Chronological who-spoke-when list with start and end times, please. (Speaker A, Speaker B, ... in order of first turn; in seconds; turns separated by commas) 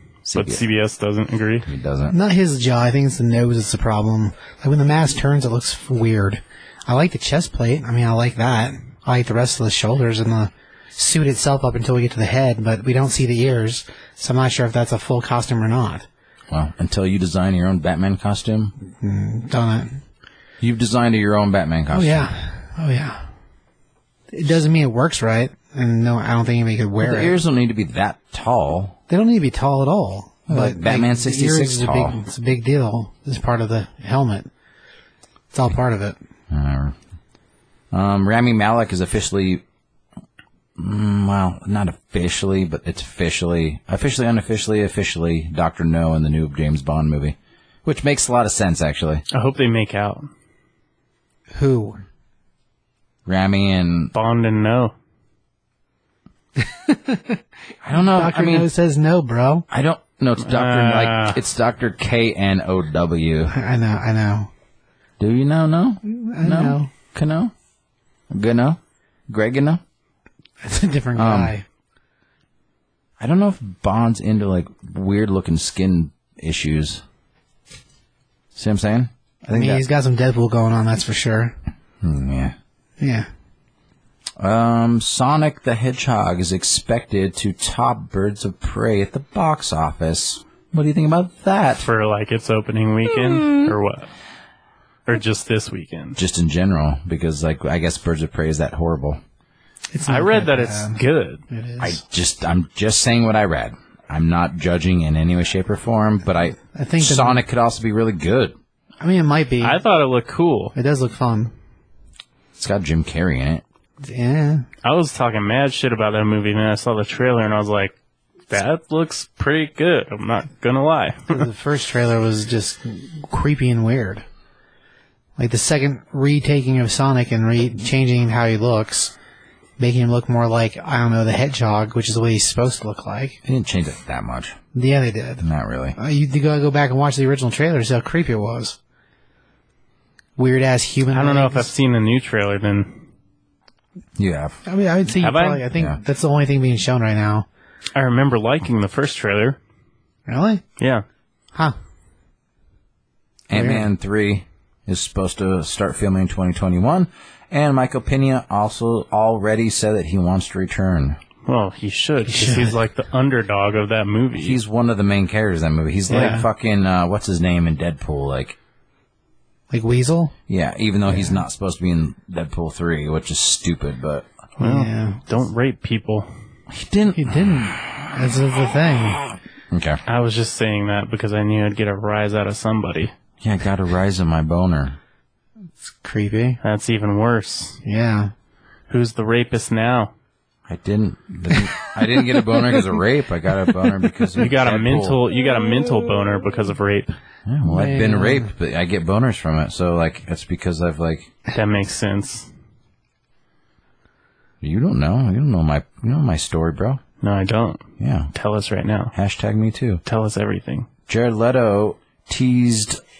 Speaker A: 0.2-1.7, Speaker B: 0.3-0.6, Speaker B: 1.7-2.1, Speaker C: 2.1-16.1, Speaker B: 16.5-18.7, Speaker C: 18.9-20.0, Speaker B: 20.6-22.3, Speaker C: 21.9-23.2, Speaker C: 24.3-27.4, Speaker B: 27.0-29.0, Speaker C: 29.1-34.5, Speaker B: 30.5-32.2, Speaker C: 35.5-36.2, Speaker B: 36.5-37.0, Speaker B: 37.9-39.6, Speaker B: 40.8-49.2, Speaker A: 49.3-50.3, Speaker C: 51.5-52.0, Speaker B: 53.2-54.1, Speaker A: 54.1-54.9, Speaker C: 56.6-57.4, Speaker B: 57.8-58.7, Speaker C: 57.9-59.6, Speaker B: 59.7-63.5, Speaker A: 60.4-61.4, Speaker C: 63.5-64.5, Speaker B: 65.2-67.5, Speaker C: 66.0-66.9, Speaker B: 68.3-69.8, Speaker C: 70.6-71.6, Speaker B: 71.2-71.5, Speaker B: 73.2-77.0, Speaker B: 78.5-79.8, Speaker C: 79.5-81.5, Speaker B: 82.0-82.5, Speaker C: 83.0-83.3, Speaker B: 84.4-91.8, Speaker A: 91.8-94.1, Speaker B: 93.0-93.8, Speaker A: 95.0-96.2, Speaker B: 96.2-99.2, Speaker C: 99.9-102.0, Speaker A: 100.0-101.4, Speaker B: 101.8-108.5, Speaker C: 106.6-107.4, Speaker C: 109.0-109.8, Speaker A: 109.6-110.7, Speaker C: 110.7-111.5, Speaker B: 112.6-113.6, Speaker C: 114.0-114.7, Speaker A: 114.8-117.9, Speaker A: 118.5-121.5, Speaker C: 121.3-124.2, Speaker C: 125.4-129.1, Speaker C: 129.8-133.4, Speaker B: 133.4-134.6, Speaker C: 134.7-138.8, Speaker B: 135.4-136.0, Speaker C: 140.4-141.7, Speaker A: 141.1-143.0, Speaker B: 144.2-144.6, Speaker C: 144.6-147.5, Speaker A: 145.2-145.7, Speaker A: 147.9-149.6, Speaker C: 150.3-150.6, Speaker A: 150.8-151.0, Speaker B: 153.5-161.2, Speaker C: 153.5-153.9, Speaker A: 161.4-164.6, Speaker C: 162.3-162.8, Speaker B: 164.3-168.6, Speaker C: 166.1-166.5, Speaker A: 166.1-166.4, Speaker C: 169.7-170.3, Speaker B: 170.5-174.3, Speaker C: 171.1-171.4, Speaker C: 174.6-175.2, Speaker A: 174.6-176.3, Speaker B: 176.7-178.1, Speaker C: 177.1-179.2, Speaker B: 178.9-180.0, Speaker A: 180.1-183.1, Speaker B: 183.4-185.0, Speaker C: 185.8-186.6, Speaker A: 186.6-187.8, Speaker C: 187.8-188.3, Speaker A: 188.9-190.1, Speaker B: 190.7-195.2, Speaker A: 194.4-197.1, Speaker B: 197.4-201.3, Speaker C: 197.7-198.5, Speaker A: 201.5-202.5, Speaker B: 204.6-207.0, Speaker A: 207.2-209.1, Speaker B: 208.0-208.3, Speaker B: 209.1-210.0, Speaker A: 210.0-210.9, Speaker B: 211.1-213.0